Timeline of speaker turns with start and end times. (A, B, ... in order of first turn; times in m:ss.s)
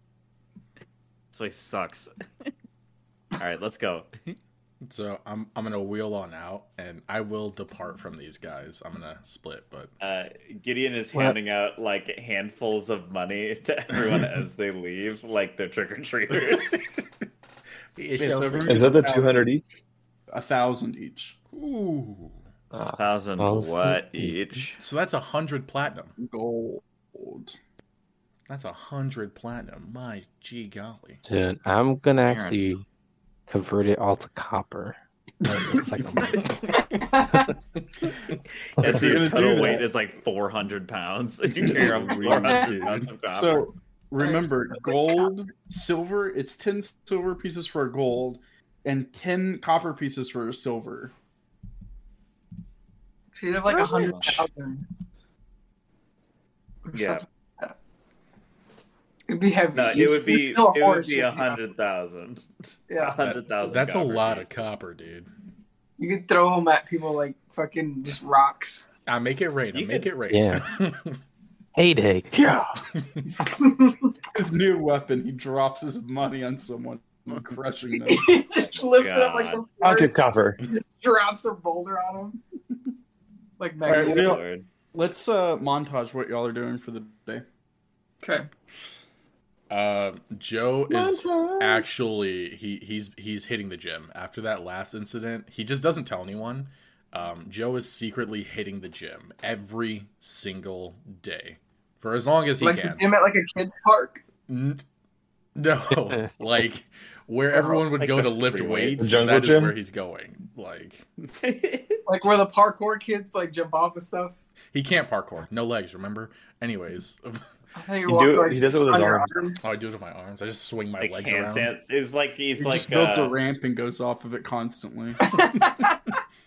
0:01.3-0:02.5 A
0:03.4-0:04.4 A
0:04.8-0:09.9 B
0:10.0-0:16.8 A
0:16.3-0:17.0 B
0:18.0-0:18.9 B
0:18.2-0:19.4 C
0:18.6-0:19.6 D
0:20.3-0:21.4 C
0:21.5-0:22.4 B
0:23.0-0:24.8 A
0:23.4-0:24.4 E
0:24.8-0:26.2 B
0:26.2-0:27.6 C
0:28.5-0:31.2 B
0:31.2-0:32.8 E
0:32.2-0:32.7 A
0:33.5-0:36.6 E
0:36.9-0:37.5 F
0:38.8-0:43.7 A
0:38.8-0:39.9 C
0:41.6-0:43.1 B
0:42.4-0:42.8 F
0:43.3-0:51.1 C
0:44.2-0:45.3 F
0:53.4-0:54.9 F
0:53.7-0:54.4 A
0:56.9-0:57.7 F
0:56.9-0:57.2 A
0:59.3-1:01.6 F
0:59.7-1:04.7 A
1:02.9-1:03.2 F
1:03.2-1:05.3 B
1:06.0-1:08.9 F
1:09.1-1:11.2 B
1:09.7-1:10.1 A
1:10.3-1:10.7 E
1:11.8-1:12.8 E
1:13.4-1:14.1 F
1:14.3-1:18.4 C
1:18.0-1:22.4 F
1:19.0-1:19.6 A
1:19.8-1:20.6 D
1:23.6-1:24.4 F
1:23.8-1:27.4 C
1:23.9-1:24.7 A
1:28.2-1:28.5 F
1:29.7-1:43.1 B
1:30.9-1:31.9 D
1:42.6-1:44.2 F
1:44.5-1:44.8 B
1:45.6-1:51.1 B
1:48.0-1:49.1 A
1:49.0-1:49.8 D
1:51.3-1:52.0 A
1:52.1-1:54.4 F
1:54.7-1:57.4 B
1:57.8-1:59.6 F
1:58.1-1:59.6 D
1:59.6-2:01.7 B
2:01.0-2:03.4 A
2:02.6-2:05.3 C
2:05.3-2:06.0 F